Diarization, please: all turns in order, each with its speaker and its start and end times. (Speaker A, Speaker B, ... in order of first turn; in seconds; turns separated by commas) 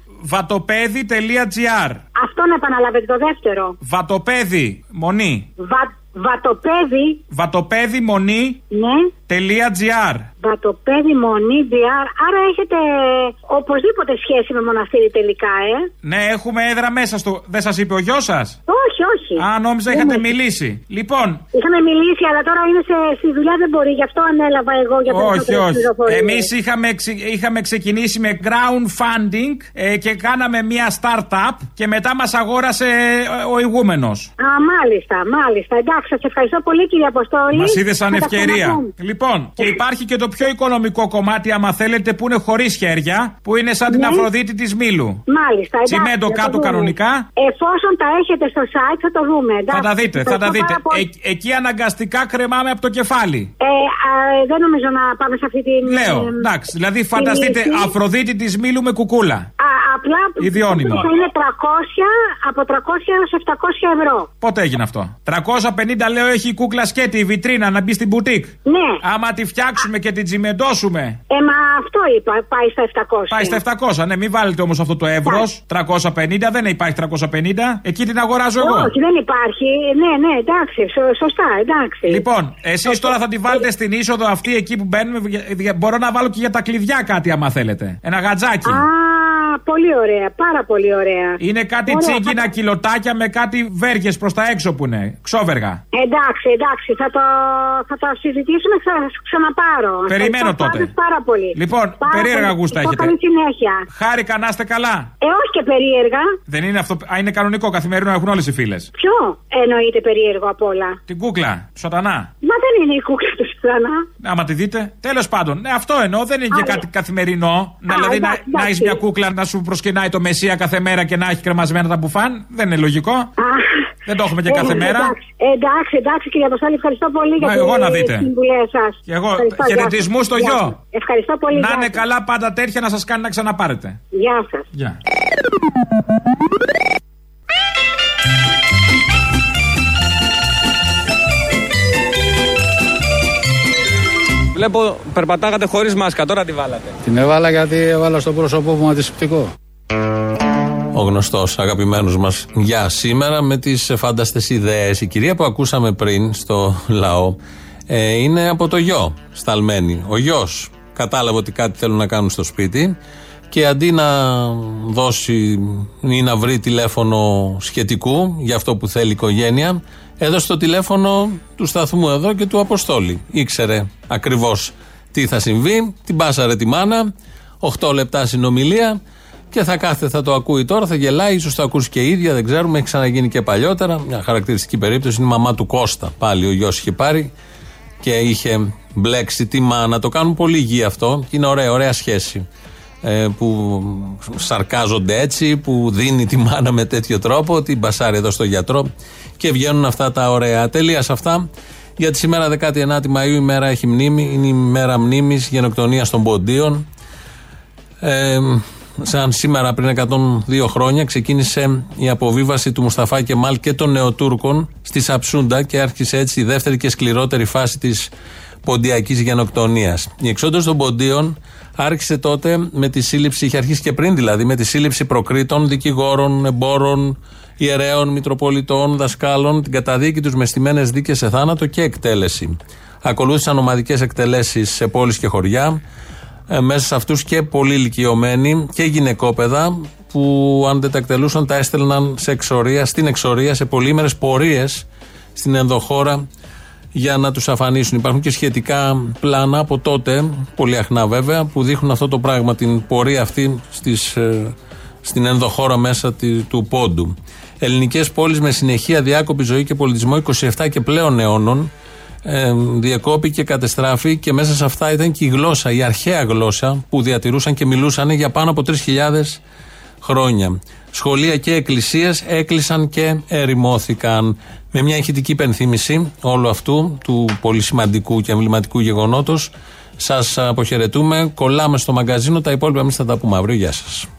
Speaker A: 0.2-2.0, Speaker B: 2.2-3.8, Speaker A: 3.8-5.5, Speaker B: 5.6-7.2, Speaker A: 7.3-8.6, Speaker B: 8.7-9.1, Speaker A: 9.3-10.3, Speaker B: 10.4-15.9, Speaker A: 16.0-18.6, Speaker B: 18.7-20.2, Speaker A: 19.4-21.4, Speaker B: 21.5-26.5, Speaker A: 25.1-34.3, Speaker B: 34.4-38.9, Speaker A: 37.5-45.2, Speaker B: 43.9-44.2, Speaker B: 45.3-51.0, Speaker A: 45.9-47.3, Speaker A: 49.7-53.5, Speaker B: 53.6-56.4, Speaker A: 55.9-59.5, Speaker B: 57.2-57.9, Speaker B: 59.6-64.3, Speaker A: 60.4-61.1, Speaker A: 64.4-68.5, Speaker B: 68.7-69.0, Speaker A: 69.0-71.2, Speaker B: 71.3-73.6, Speaker A: 73.3-78.9, Speaker B: 78.6-82.2, Speaker A: 82.1-88.8, Speaker B: 82.9-83.6, Speaker B: 88.7-92.5, Speaker A: 91.4-95.8, Speaker B: 95.9-103.8, Speaker A: 100.1-100.9, Speaker A: 101.5-103.1, Speaker A: 103.9-105.1, Speaker B: 105.2-106.3, Speaker A: 106.5-108.9, Speaker B: 109.0-111.0, Speaker A: 111.1-112.3, Speaker B: 112.4-114.0, Speaker A: 114.2-123.3, Speaker B: 116.5-116.8, Speaker B: 117.9-119.0, Speaker B: 123.4-123.6, Speaker A: 124.1-125.1, Speaker B: 124.5-132.0, Speaker A: 127.4-128.3, Speaker A: 129.1-130.8, Speaker A: 131.6-134.0, Speaker B: 134.1-134.7, Speaker C: 144.5-147.0, Speaker D: 147.0-149.5, Speaker E: 150.9-157.4, Speaker E: 157.9-162.9, Speaker E: 163.5-177.1, Speaker E: 177.6-179.0, Speaker E: 179.5-187.3, Speaker E: 188.0-192.4, Speaker E: 193.0-201.5, Speaker E: 202.0-206.8, Speaker E: 208.0-218.1, Speaker E: 218.7-235.8, Speaker E: 236.5-246.2, Speaker E: 246.9-261.7, Speaker E: 262.2-269.4, Speaker E: 270.0-284.1